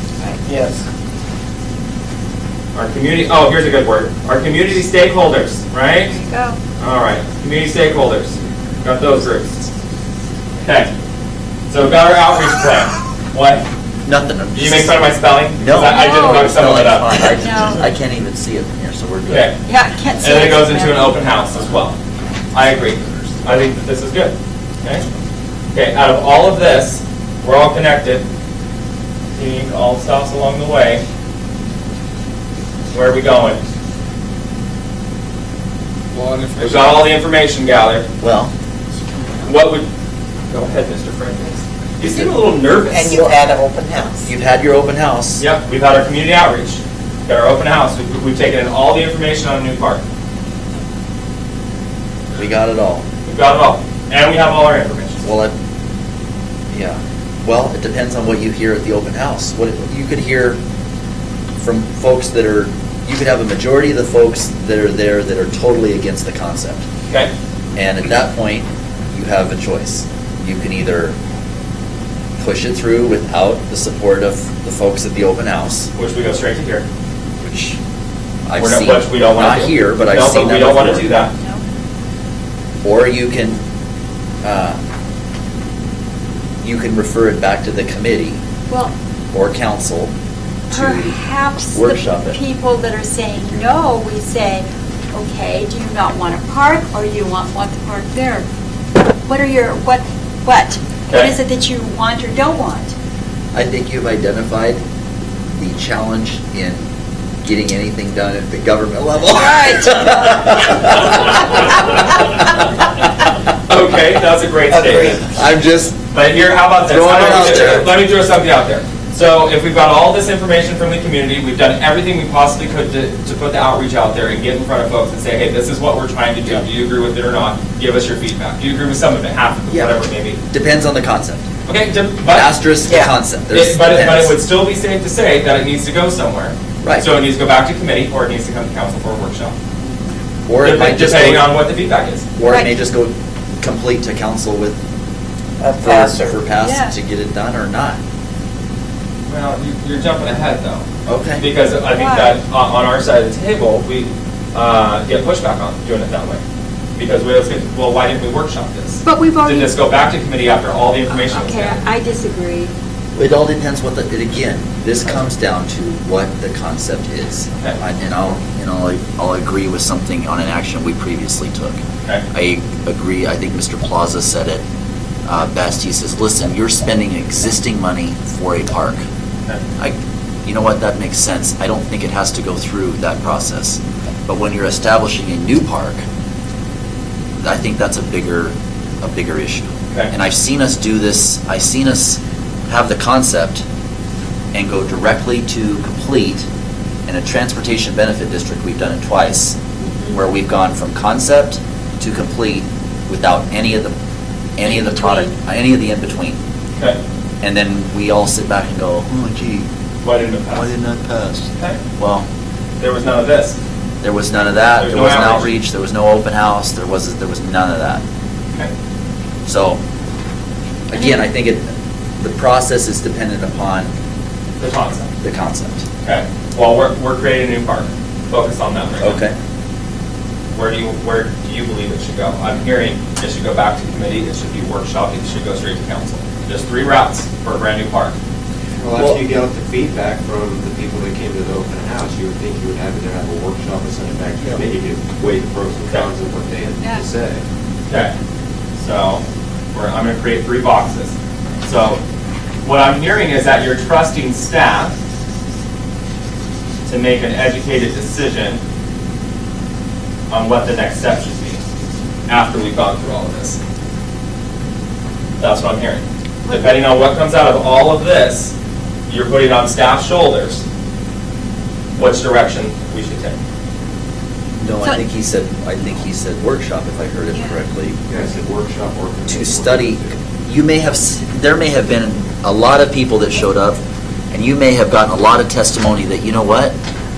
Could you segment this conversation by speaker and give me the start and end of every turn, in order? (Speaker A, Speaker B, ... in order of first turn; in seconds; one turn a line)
Speaker A: 0.5-0.8
Speaker B: 2.8-6.2
Speaker C: 6.1-6.6
Speaker B: 6.8-9.6
Speaker B: 10.6-10.9
Speaker B: 11.7-13.7
Speaker D: 14.1-15.0
Speaker B: 14.5-17.3
Speaker D: 15.6-19.5
Speaker C: 15.7-16.5
Speaker C: 17.4-17.8
Speaker B: 19.3-19.6
Speaker C: 19.7-21.2
Speaker B: 20.2-22.0
Speaker B: 22.5-25.1
Speaker B: 25.7-28.2
Speaker B: 29.4-31.1
Speaker B: 32.9-33.6
Speaker B: 36.6-38.1
Speaker D: 38.2-38.5
Speaker B: 39.4-39.9
Speaker B: 40.5-43.4
Speaker D: 42.0-42.4
Speaker A: 42.9-44.3
Speaker D: 44.2-45.4
Speaker B: 45.4-50.0
Speaker D: 52.4-53.0
Speaker B: 53.3-55.2
Speaker D: 55.2-55.5
Speaker D: 56.7-60.6
Speaker D: 61.6-66.8
Speaker D: 67.8-71.2
Speaker D: 72.4-75.9
Speaker B: 76.0-76.8
Speaker D: 77.4-77.8
Speaker D: 78.5-81.1
Speaker B: 78.6-81.3
Speaker D: 82.8-83.6
Speaker D: 84.4-84.8
Speaker D: 86.6-88.4
Speaker D: 89.3-90.1
Speaker D: 90.7-91.2
Speaker C: 90.7-98.5
Speaker D: 91.7-92.4
Speaker C: 99.2-102.9
Speaker D: 103.5-104.8
Speaker D: 105.6-106.9
Speaker D: 107.4-112.7
Speaker C: 109.3-110.6
Speaker B: 113.7-115.3
Speaker D: 115.3-116.0
Speaker B: 116.1-130.4
Speaker D: 116.8-117.9
Speaker D: 130.5-131.4
Speaker B: 131.7-132.5
Speaker D: 132.3-134.4
Speaker A: 132.9-133.1
Speaker B: 133.5-139.6
Speaker D: 136.8-137.1
Speaker D: 140.5-141.6
Speaker B: 140.6-142.2
Speaker D: 142.4-144.8
Speaker C: 142.4-142.7
Speaker A: 145.6-146.4
Speaker D: 145.8-148.0
Speaker C: 146.6-146.9
Speaker B: 149.3-156.4
Speaker D: 151.1-151.5
Speaker C: 151.9-152.4
Speaker B: 157.0-161.8
Speaker C: 159.1-159.7
Speaker C: 161.1-162.7
Speaker D: 163.2-174.6
Speaker D: 175.3-179.1
Speaker D: 179.8-186.0
Speaker D: 187.4-193.6
Speaker D: 194.5-196.5
Speaker D: 197.1-199.6
Speaker C: 199.9-200.1
Speaker D: 200.1-203.9
Speaker D: 204.6-206.4
Speaker C: 204.7-205.3
Speaker D: 207.4-209.2
Speaker B: 210.0-210.7
Speaker D: 212.0-212.3
Speaker B: 212.8-213.6
Speaker D: 214.0-218.0
Speaker B: 214.8-215.5
Speaker D: 219.5-219.8
Speaker D: 220.9-223.9
Speaker C: 220.9-221.2
Speaker B: 224.6-225.1
Speaker D: 225.2-225.8
Speaker B: 226.0-229.2
Speaker D: 229.0-229.3
Speaker B: 230.5-238.2
Speaker E: 238.8-247.4
Speaker D: 238.9-239.2
Speaker B: 248.8-252.0
Speaker B: 252.6-254.9
Speaker B: 256.9-258.6
Speaker B: 260.3-261.6
Speaker B: 262.3-263.6
Speaker B: 265.4-268.5
Speaker B: 269.1-270.6
Speaker B: 272.0-273.4
Speaker D: 274.6-278.0
Speaker E: 278.1-280.1
Speaker D: 279.3-286.8